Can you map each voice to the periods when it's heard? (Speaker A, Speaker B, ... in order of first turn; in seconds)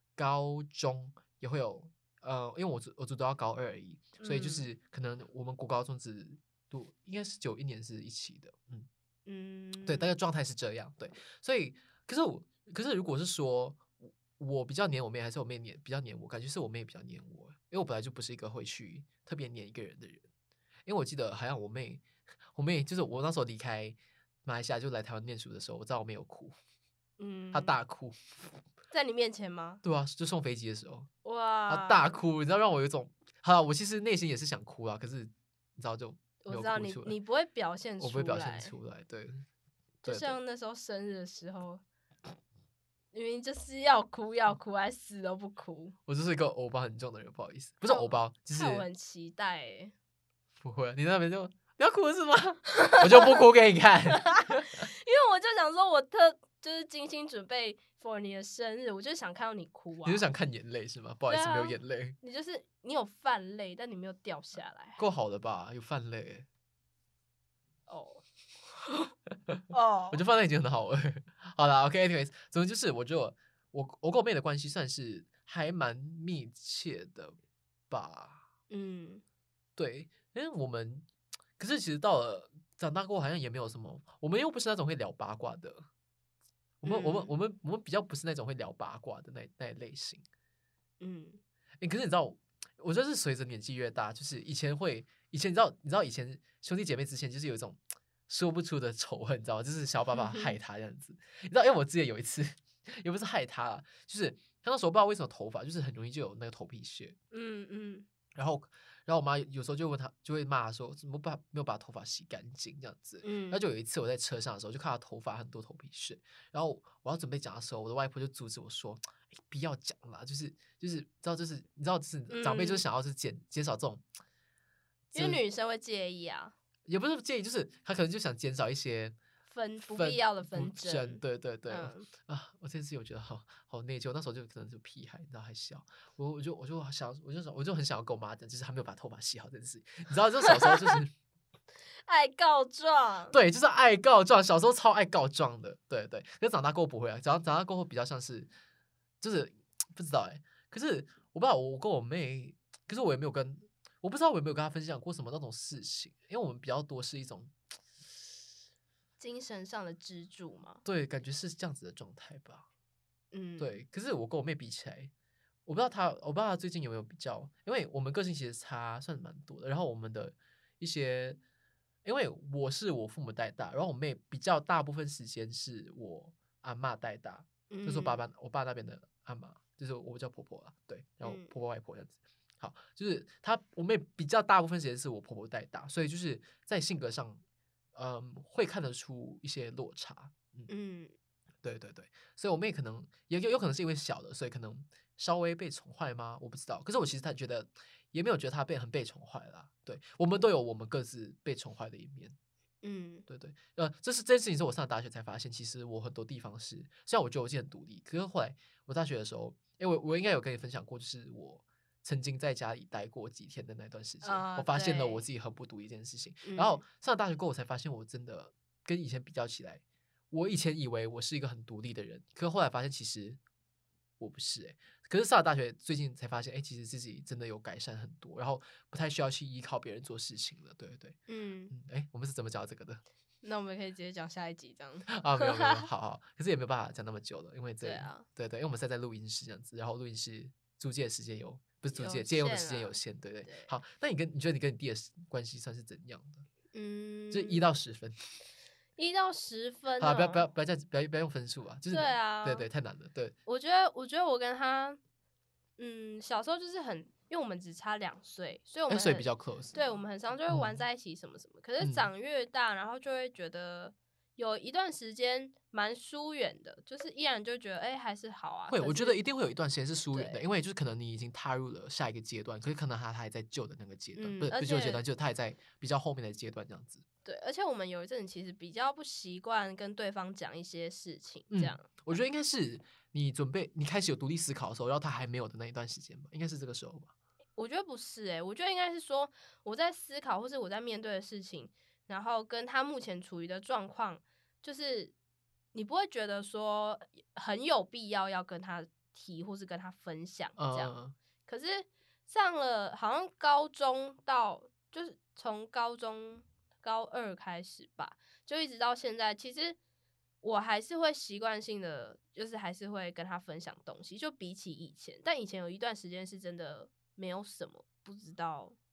Speaker A: 0.2-8.9, 9.8-20.3, 20.9-26.6, 27.5-28.6, 29.8-31.1, 31.7-37.2, 38.0-39.5, 40.0-40.4, 46.1-48.9, 50.6-54.9, 60.0-62.2, 65.0-66.5, 70.1-77.4, 77.9-78.5, 79.8-81.1, 81.6-85.9, 86.8-90.2, 91.8-107.2, 108.3-124.0, 125.1-125.4, 126.9-129.2, 129.9-141.1, 143.3-148.5, 149.2-157.5, 160.8-162.7, 163.6-165.1, 165.7-171.4, 172.1-187.4, 187.9-190.7, 191.6-202.3, 203.3-223.4, 224.2-231.2, 231.7-233.0, 235.1-246.5, 247.3-248.2, 250.0-253.3, 258.9-259.8, 260.5-260.8, 261.8-262.1, 268.7-277.0, 281.5-287.1, 300.6-301.2
Speaker B: 4.2-4.7, 9.3-10.2, 27.2-27.8, 28.9-29.8, 31.2-32.1, 36.4-38.8, 40.0-41.8, 43.1-46.0, 47.9-49.9, 52.7-53.4, 54.1-60.2, 61.3-65.0, 67.9-69.1, 69.7-70.2, 78.7-79.2, 86.8-87.3, 91.0-91.4, 100.1-100.6, 107.3-108.1, 113.2-113.6, 122.3-122.8, 125.1-126.5, 129.5-132.1, 140.5-141.0, 142.1-143.4, 159.2-160.8, 163.3-163.8, 177.7-178.2, 181.2-181.5, 190.7-191.2, 202.8-203.2, 214.2-215.3, 216.4-216.8, 231.3-231.7, 233.4-235.9, 237.8-238.3, 241.9-243.7, 246.7-247.7, 249.0-250.5, 251.9-252.7, 253.5-255.0, 255.8-269.2, 270.1-270.4, 274.2-275.0, 277.2-281.9, 287.6-295.1, 295.7-300.9, 301.5-309.8, 310.4-318.8